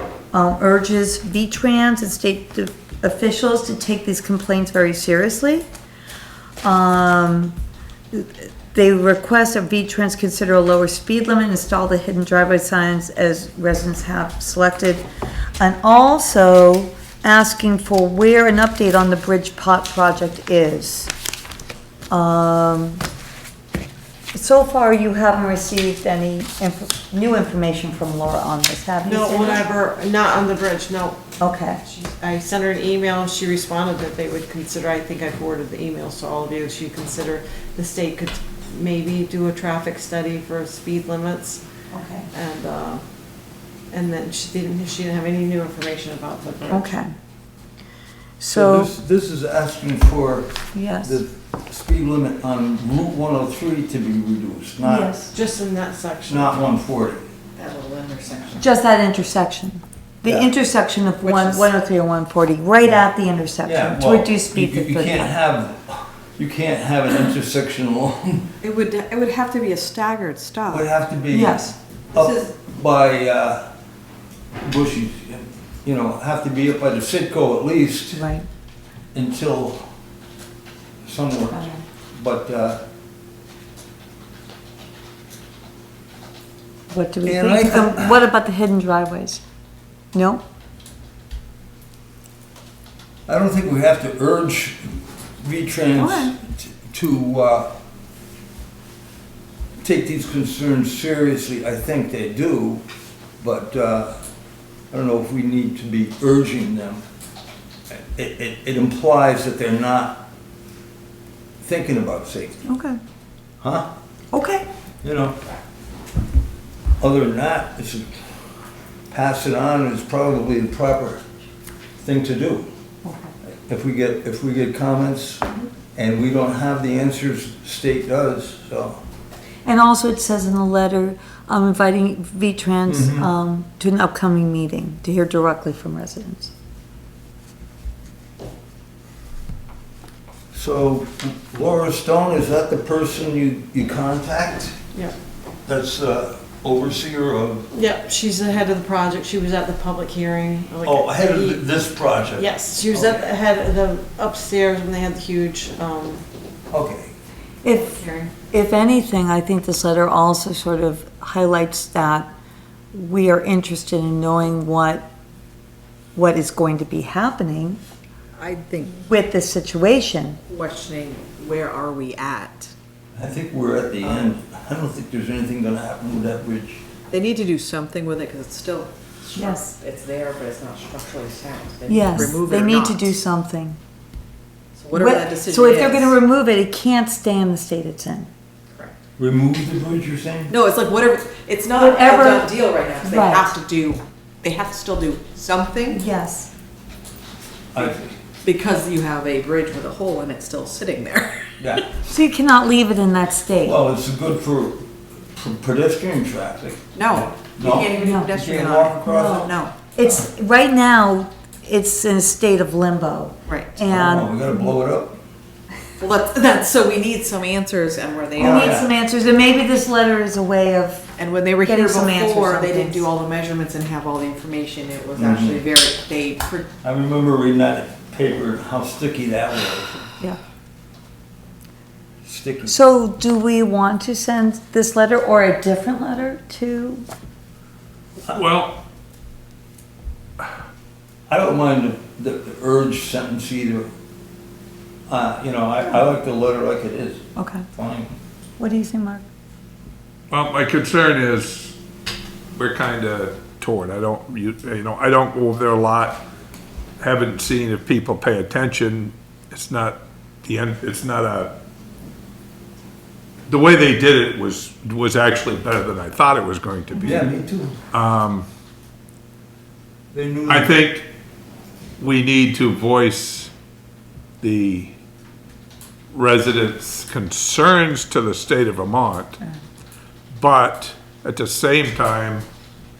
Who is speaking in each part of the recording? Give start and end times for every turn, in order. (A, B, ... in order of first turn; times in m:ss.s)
0:00.3-0:05.7 A
0:06.6-0:07.6 A
0:08.1-0:15.0 A
0:15.6-0:21.1 A
0:22.1-0:23.0 A
0:24.3-0:29.6 A
0:29.0-0:31.2 B
0:31.4-0:31.8 A
0:31.8-0:41.6 B
0:41.9-0:42.3 A
0:42.3-0:43.0 B
0:43.9-0:46.9 B
0:46.7-0:47.1 A
0:48.4-0:48.9 A
0:48.5-0:55.1 C
0:50.7-0:51.2 A
0:54.8-0:55.3 A
0:55.3-0:56.7 B
0:56.3-0:57.2 C
0:57.6-0:58.6 D
0:58.6-1:05.3 A
1:01.2-1:01.7 D
1:03.6-1:08.5 C
1:08.6-1:10.9 D
1:10.7-1:13.6 C
1:11.3-1:11.7 A
1:12.2-1:12.4 D
1:14.6-1:18.2 C
1:18.1-1:18.5 A
1:19.1-1:19.8 C
1:21.0-1:22.8 C
1:21.5-1:21.8 A
1:26.9-1:29.4 A
1:27.2-1:28.2 C
1:30.1-1:30.4 A
1:33.3-1:37.7 C
1:36.0-1:36.3 A
1:39.8-1:42.8 C
1:43.4-1:44.2 C
1:44.9-1:47.0 C
1:47.9-1:50.2 C
1:51.6-1:52.6 C
1:52.7-1:53.0 A
1:53.6-1:53.9 C
1:54.3-1:54.6 A
1:55.0-1:55.4 C
1:57.0-1:58.2 C
1:59.1-2:01.2 C
2:02.0-2:02.7 C
2:03.0-2:03.3 A
2:03.7-2:09.0 C
2:09.6-2:16.5 A
2:12.9-2:13.3 C
2:20.5-2:24.8 C
2:25.6-2:27.7 C
2:27.7-2:31.6 B
2:30.8-2:33.2 C
2:32.4-2:36.2 B
2:36.7-2:37.1 C
2:37.6-2:42.3 A
2:37.8-2:38.3 B
2:42.9-2:45.1 A
2:46.1-2:47.8 A
2:48.4-2:49.0 D
2:48.9-2:50.4 A
2:50.5-2:52.7 D
2:53.2-2:56.8 C
2:54.0-2:54.3 D
2:57.1-3:03.1 D
2:59.4-2:59.7 A
3:01.9-3:03.8 A
3:04.8-3:06.2 D
3:04.9-3:08.3 A
3:09.2-3:10.5 C
3:10.5-3:16.0 D
3:11.8-3:13.6 A
3:15.9-3:16.5 A
3:17.7-3:18.1 C
3:17.8-3:21.8 D
3:21.6-3:21.8 C
3:22.0-3:23.8 A
3:23.6-3:29.5 C
3:26.9-3:29.7 D
3:28.0-3:28.3 A
3:29.0-3:34.3 A
3:33.5-3:33.8 D
3:33.9-3:35.2 C
3:36.0-3:38.8 D
3:38.4-3:38.9 C
3:38.4-3:41.1 A
3:41.2-3:46.7 D
3:41.6-3:43.1 A
3:45.1-3:45.6 C
3:46.8-3:50.1 C
3:52.2-3:52.8 C
3:52.6-3:57.0 A
3:58.3-3:58.8 E
4:01.3-4:03.9 C
4:05.1-4:08.1 C
4:07.4-4:07.7 A
4:08.6-4:09.2 A
4:10.3-4:11.8 E
4:12.5-4:16.2 E
4:17.0-4:21.6 E
4:23.5-4:27.2 E
4:27.0-4:27.8 C
4:27.9-4:28.5 E
4:30.1-4:30.7 C
4:30.5-4:31.1 E
4:32.0-4:33.5 E
4:34.4-4:34.9 E
4:36.1-4:39.4 E
4:40.3-4:42.4 E